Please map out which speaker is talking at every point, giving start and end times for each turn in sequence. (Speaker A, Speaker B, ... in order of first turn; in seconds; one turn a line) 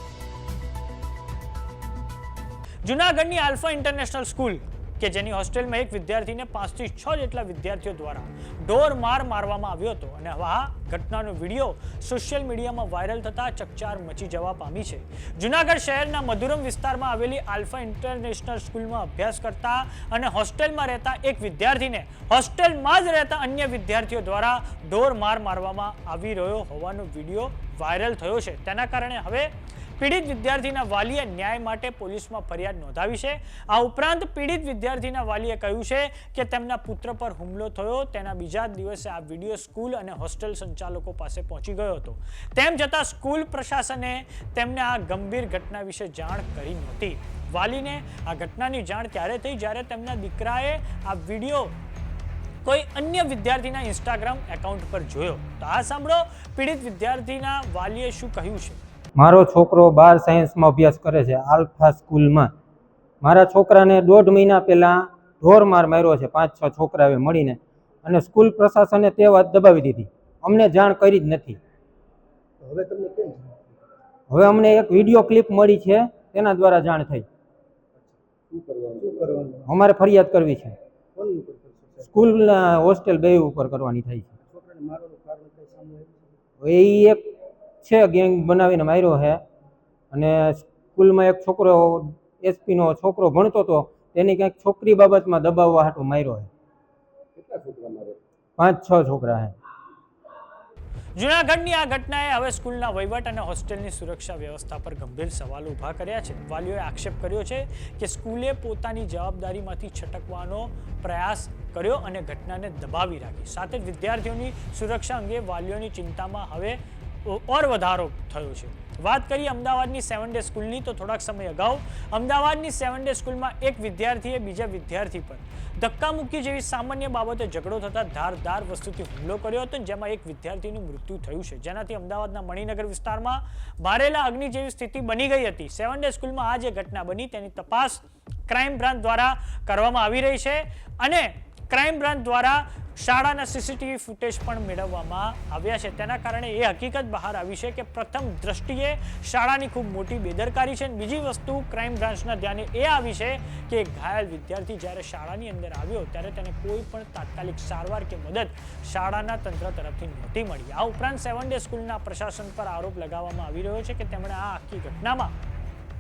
Speaker A: 2.8-51.8
Speaker A: 52.6-58.8
Speaker B: 59.2-62.5
Speaker B: 63.2-71.6
Speaker C: 72.6-73.7
Speaker B: 74.3-77.3
Speaker C: 78.5-79.7
Speaker B: 79.7-80.8
Speaker C: 81.2-82.1
Speaker B: 82.0-84.3
Speaker C: 84.5-86.3
Speaker B: 86.6-89.4
Speaker B: 90.1-96.5
Speaker C: 97.4-98.2
Speaker B: 98.6-99.5
Speaker A: 101.2-165.3